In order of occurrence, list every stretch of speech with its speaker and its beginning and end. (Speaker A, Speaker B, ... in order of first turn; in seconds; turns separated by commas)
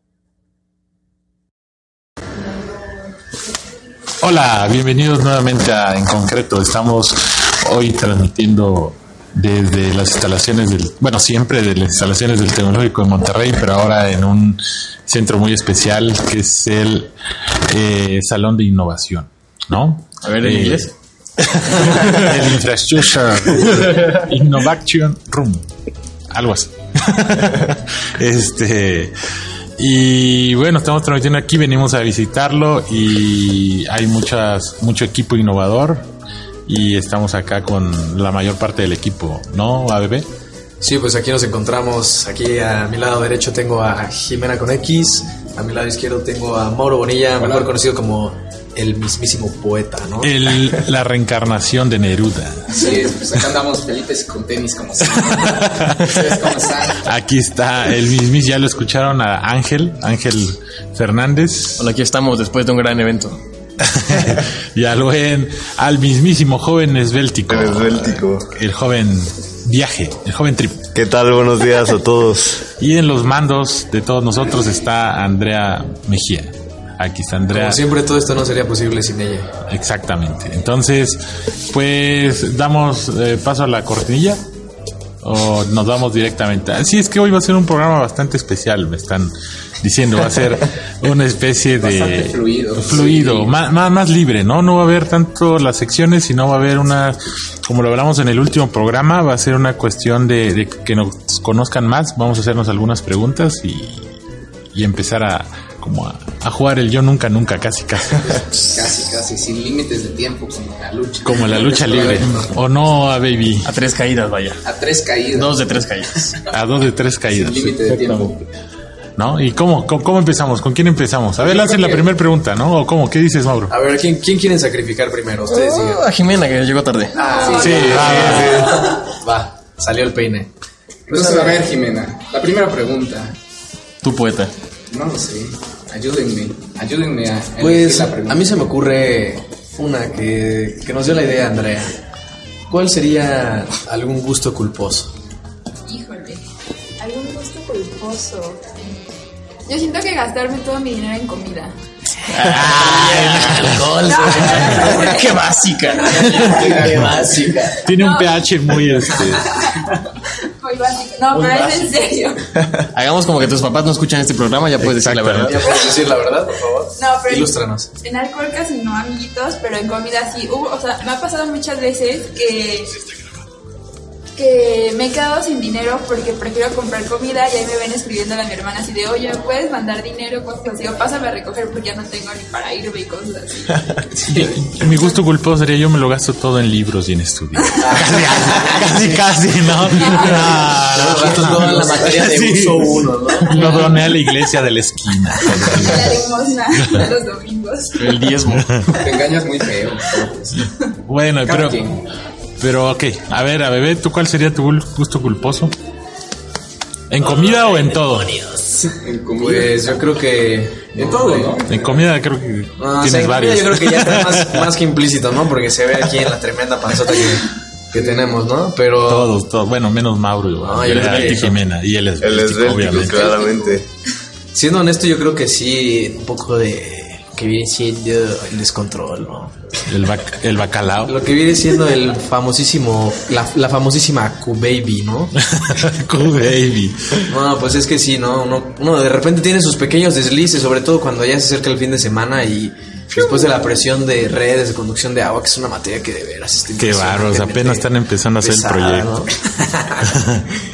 Speaker A: 4.2-17.1, Speaker A: 17.7-25.7, Speaker B: 20.2-20.9, Speaker B: 21.9-22.3, Speaker A: 26.3-29.1, Speaker A: 29.8-36.1, Speaker A: 36.7-40.3, Speaker C: 40.8-50.3, Speaker D: 47.4-47.7, Speaker A: 50.2-52.9, Speaker D: 52.7-57.0, Speaker A: 55.1-56.2, Speaker A: 57.0-61.9, Speaker B: 61.8-63.4, Speaker A: 63.8-70.9, Speaker E: 67.5-68.5, Speaker E: 70.9-72.7, Speaker A: 72.8-77.8, Speaker C: 77.5-79.5, Speaker A: 79.7-84.4, Speaker A: 85.2-104.1, Speaker D: 91.8-93.5, Speaker A: 104.7-108.6, Speaker D: 108.7-112.4, Speaker A: 111.2-113.7, Speaker B: 113.6-114.6, Speaker D: 114.6-115.7, Speaker B: 115.3-116.3, Speaker A: 116.5-118.5, Speaker D: 117.3-118.4, Speaker A: 119.2-123.7, Speaker D: 121.4-122.1, Speaker C: 123.7-126.0, Speaker B: 125.5-127.2, Speaker C: 127.1-130.5, Speaker F: 127.1-128.0, Speaker D: 127.4-128.2, Speaker A: 127.6-128.8, Speaker B: 128.0-128.4, Speaker E: 128.3-128.7, Speaker D: 131.1-133.3, Speaker C: 131.1-131.6, Speaker B: 134.0-134.5, Speaker D: 134.9-138.5, Speaker C: 137.6-141.9, Speaker C: 142.7-145.1, Speaker F: 145.9-146.4, Speaker F: 147.0-148.6, Speaker F: 149.7-151.8, Speaker B: 152.2-157.4, Speaker A: 152.4-154.0, Speaker F: 154.0-156.7, Speaker C: 154.2-155.0, Speaker A: 154.5-154.8, Speaker C: 156.1-157.8, Speaker A: 157.8-159.6, Speaker F: 157.9-158.4, Speaker F: 159.1-159.9, Speaker F: 160.6-162.5, Speaker B: 161.3-161.8, Speaker B: 162.8-165.8, Speaker A: 164.8-165.6, Speaker C: 165.5-167.9, Speaker F: 167.0-172.9, Speaker F: 174.4-184.0, Speaker A: 184.3-196.2, Speaker C: 187.8-189.0, Speaker F: 189.9-190.7, Speaker C: 190.3-193.8, Speaker B: 190.9-192.7, Speaker F: 193.6-194.0, Speaker F: 195.4-198.4, Speaker A: 196.8-197.1, Speaker B: 198.0-199.1, Speaker A: 198.5-198.9, Speaker D: 199.0-200.7, Speaker A: 201.1-201.9, Speaker D: 201.4-202.0, Speaker A: 202.6-205.7, Speaker A: 207.1-208.4, Speaker D: 208.6-210.0, Speaker C: 209.4-211.6, Speaker D: 211.0-212.0, Speaker A: 211.7-214.7, Speaker C: 212.8-219.3, Speaker D: 218.0-218.3, Speaker A: 219.1-223.4, Speaker C: 220.6-221.5, Speaker B: 220.8-221.6, Speaker E: 222.2-223.9, Speaker C: 223.3-223.7, Speaker C: 224.5-229.6, Speaker A: 229.9-231.2, Speaker C: 231.1-235.3, Speaker A: 235.5-237.3, Speaker C: 237.3-250.2, Speaker A: 246.8-249.1, Speaker A: 250.1-250.4